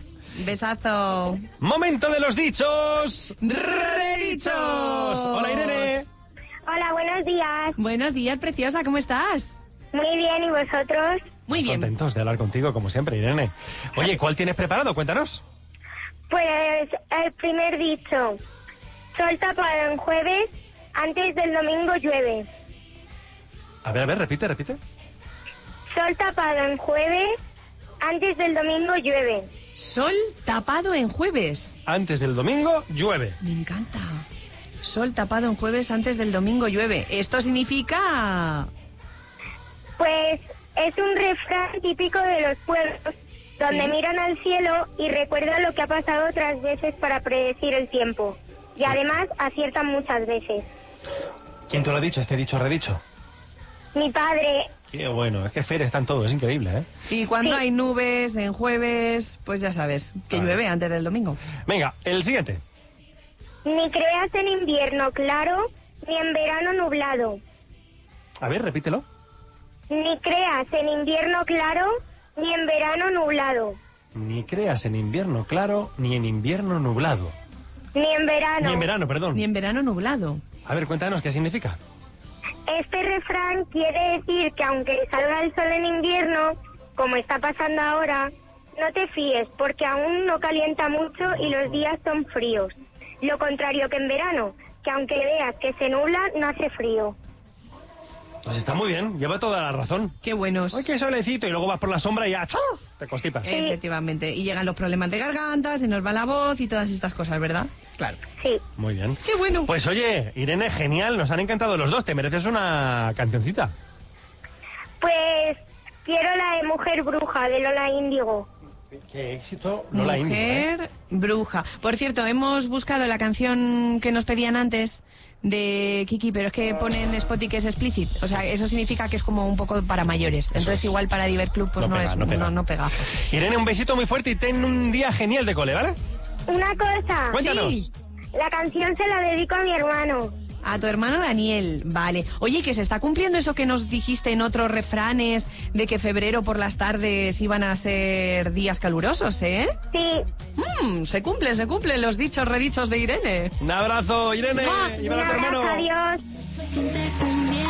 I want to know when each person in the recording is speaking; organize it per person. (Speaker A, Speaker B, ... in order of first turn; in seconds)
Speaker A: 0.3-1.4, 3.5-5.9, 7.8-9.5, 11.5-11.9, 29.8-31.8, 33.4-34.2, 34.8-38.7, 43.6-43.9, 57.1-61.4, 79.3-80.4, 100.2-100.8, 103.5-108.2, 109.2-109.7, 119.9-133.1, 137.4-137.9, 140.6-149.8, 150.6-153.6, 154.6-155.1
Speaker B: 1.6-6.1, 11.5-15.4, 23.8-24.8, 31.9-33.4, 51.7-53.0, 54.9-56.9, 61.7-62.6, 68.4-69.0, 74.1-77.3, 78.6-79.4, 80.7-81.8, 98.5-100.2, 100.7-103.5, 108.8-113.7, 119.1-120.7, 130.5-130.9, 131.8-132.6, 133.2-136.0, 137.3-137.9, 153.6-155.8
Speaker C: 6.7-7.8, 9.9-11.4, 16.3-18.4, 19.1-22.5, 25.9-27.3, 28.0-29.5, 40.0-50.7, 53.9-54.7, 63.6-67.4, 69.9-73.8, 78.0-78.9, 82.7-97.2, 103.5-103.8, 108.4-108.6, 115.0-118.5, 136.5-137.4, 138.3-140.4, 149.9-150.2, 155.1-156.2